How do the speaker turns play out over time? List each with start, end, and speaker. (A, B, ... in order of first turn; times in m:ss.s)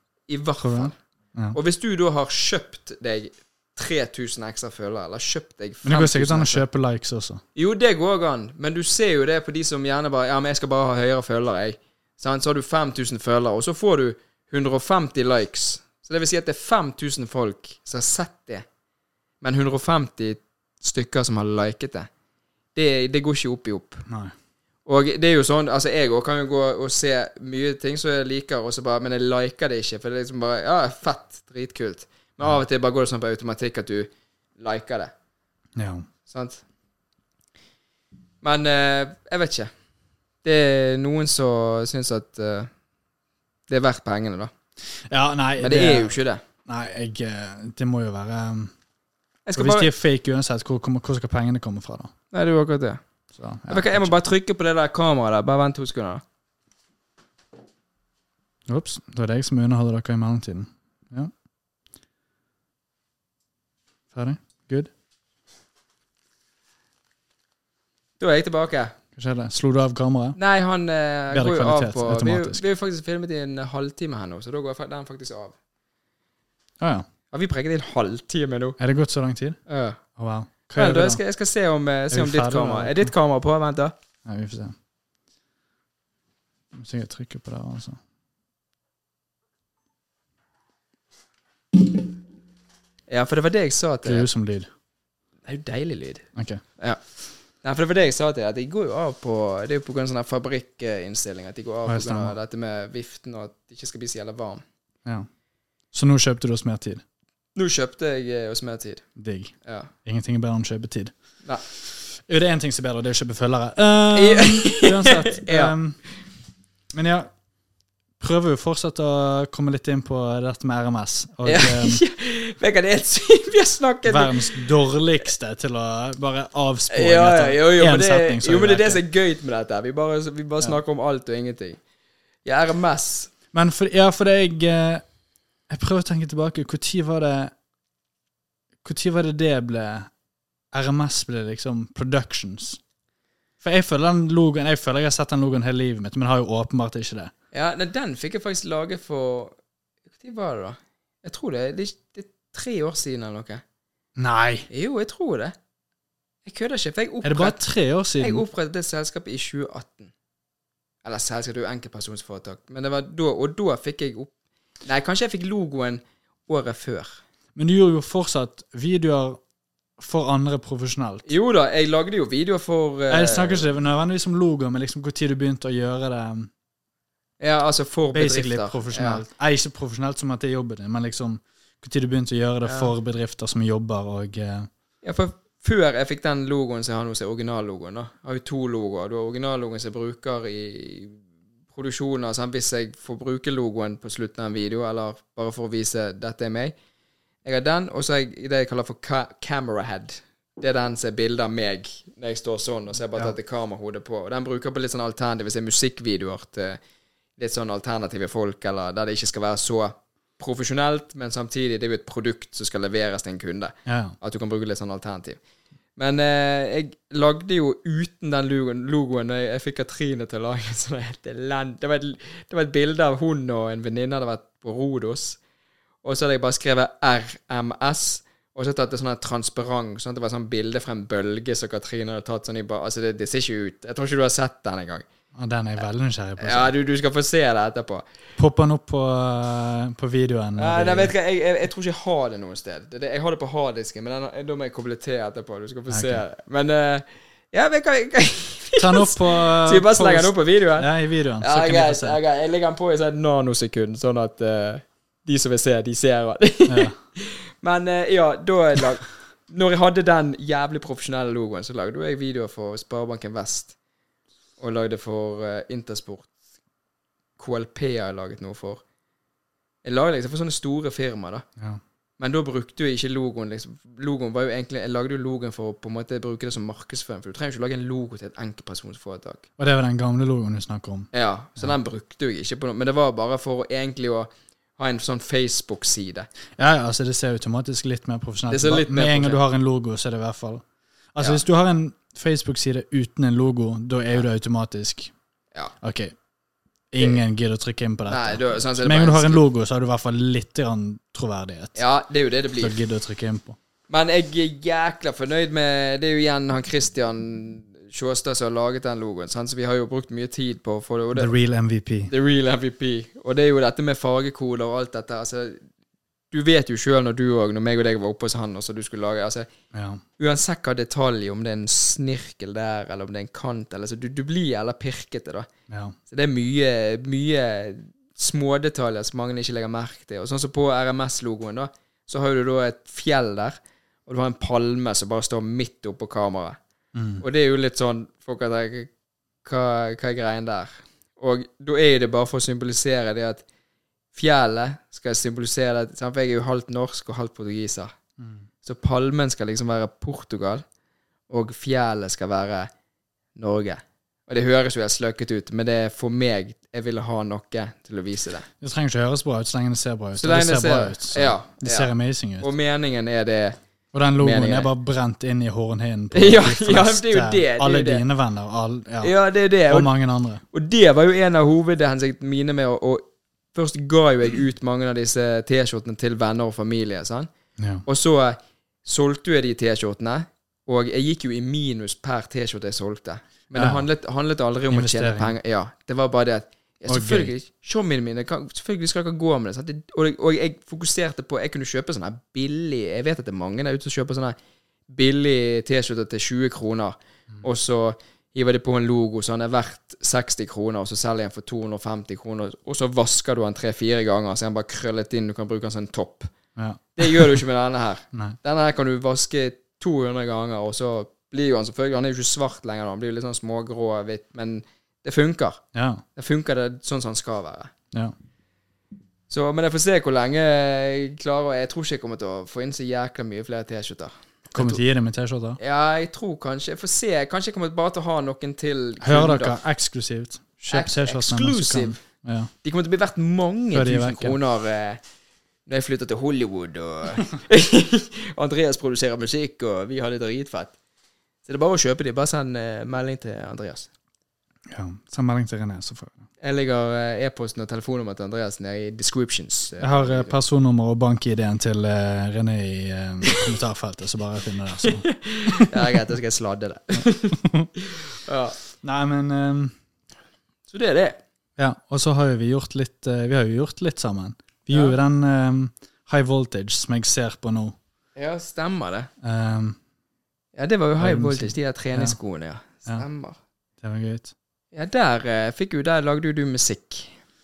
0:00.3-0:01.0 A
0:00.6-0:01.6 B
0:01.5-0:06.6 A
0:05.8-0:07.4 B
0:07.5-0:18.6 A
0:19.4-0:22.1 A
0:22.7-0:24.0 A
0:24.1-0:24.3 B
0:24.8-0:35.1 A
0:35.8-0:36.1 B
0:36.3-0:36.6 A
0:38.4-0:39.7 A
0:40.4-0:42.7 A
0:43.7-0:44.5 A
0:45.1-0:48.7 B
0:45.6-0:46.4 A
0:49.4-0:49.9 A
0:49.6-0:52.1 B
0:52.3-0:53.0 A
0:53.3-0:54.1 B
0:53.7-0:56.2 A
0:58.7-1:01.3 B
1:04.1-1:04.9 B
1:08.2-1:09.0 A
1:09.2-1:10.4 B
1:10.4-1:15.6 A
1:11.3-1:12.6 B
1:16.8-1:17.0 B
1:17.3-1:18.8 A
1:18.8-1:19.6 B
1:19.7-1:20.0 A
1:20.2-1:21.2 B
1:20.7-1:23.9 A
1:22.1-1:23.1 B
1:24.2-1:24.7 B
1:26.7-1:28.0 B
1:33.1-1:34.3 A
1:34.0-1:34.7 B
1:35.4-1:36.2 A
1:36.3-1:36.6 B
1:37.6-1:44.6 A
1:41.8-1:42.4 B
1:45.9-1:47.0 B
1:47.5-1:49.0 A
1:49.2-1:51.1 B
1:49.6-1:49.9 A
1:51.8-1:56.0 B
1:54.1-1:55.7 A
1:56.9-1:57.3 B
1:58.2-2:02.0 B
2:01.4-2:04.7 A
2:04.0-2:09.0 B
2:06.9-2:11.8 A
2:12.4-2:13.3 A
2:13.5-2:15.0 B
2:15.7-2:17.5 B
2:18.8-2:20.1 B
2:20.7-2:22.8 B
2:23.6-2:27.3 B
2:27.5-2:29.6 A
2:30.1-2:33.6 A
2:34.2-2:34.7 B
2:34.7-2:35.5 A
2:36.4-2:37.6 A
2:37.2-2:38.4 B
2:38.2-2:40.1 A
2:41.0-2:44.3 A
2:44.8-2:47.2 A
2:47.5-2:49.4 B
2:50.0-2:51.3 B
2:51.3-2:53.6 A
2:53.1-2:56.5 B
2:57.4-2:59.2 A
2:58.1-3:04.7 B
3:02.6-3:02.9 A
3:05.0-3:11.2 A
3:11.7-3:16.7 A
3:17.4-3:26.8 A
3:27.4-3:35.4 A
3:33.8-3:34.2 B
3:36.0-3:45.4 A
3:46.0-3:55.0 A
3:55.4-3:56.7 B
3:56.4-3:58.0 A
3:58.4-4:01.1 B
4:00.6-4:23.7 A
4:05.9-4:06.2 B
4:08.8-4:12.2 B
4:16.7-4:17.0 B
4:24.6-4:26.3 A
4:27.4-4:28.8 A
4:29.8-4:31.4 A
4:32.2-4:39.4 A
4:39.6-4:41.7 B
4:41.1-4:46.3 A
4:46.6-4:55.1 B
4:48.5-4:49.4 A
4:55.8-4:56.1 B
4:56.9-5:01.8 B
4:58.1-4:59.4 A
5:01.8-5:02.8 A
5:02.6-5:03.6 B
5:03.9-5:11.3 A
5:11.1-5:12.1 B
5:12.1-5:15.6 A
5:16.3-5:19.5 A
5:19.7-5:20.0 B
5:20.2-5:25.5 A
5:25.7-5:26.0 B
5:26.1-5:36.6 A
5:36.9-5:37.2 B
5:37.2-5:38.9 A
5:39.4-5:43.4 A
5:44.1-5:47.9 A
5:48.2-5:48.4 B
5:48.6-5:50.6 A
5:51.3-5:52.7 A
5:53.4-5:58.5 A
5:58.6-6:02.5 B
6:00.2-6:01.9 A
6:02.4-6:03.6 A
6:03.9-6:09.1 B
6:04.2-6:04.7 A
6:06.1-6:08.0 A
6:09.0-6:09.9 A
6:09.7-6:10.4 B
6:10.5-6:17.3 A
6:17.6-6:17.8 B
6:17.8-6:34.4 A
6:23.5-6:23.8 B
6:24.7-6:25.3 B
6:26.9-6:27.3 B
6:34.9-6:46.3 A
6:46.6-6:47.4 B
6:47.0-6:55.6 A
6:55.7-6:56.0 B
6:56.2-6:57.7 A
6:59.3-7:04.8 A
7:04.5-7:05.6 B
7:05.6-7:09.6 A
7:09.0-7:12.5 B
7:10.7-7:12.0 A
7:12.6-7:15.0 A
7:13.7-7:14.4 B
7:15.7-7:20.7 A
7:21.4-7:23.9 A
7:24.7-7:26.3 B
7:26.4-7:30.4 A
7:29.8-7:35.7 B
7:34.8-7:38.6 A
7:37.0-7:37.7 B
7:38.8-7:39.7 B
7:40.7-7:41.2 A
7:41.6-7:47.8 B
7:44.7-7:45.0 A
7:48.2-7:49.1 A
7:49.2-7:49.8 B
7:50.5-7:53.4 A
7:51.0-7:52.2 B
7:53.8-7:54.3 B
7:54.7-7:57.1 A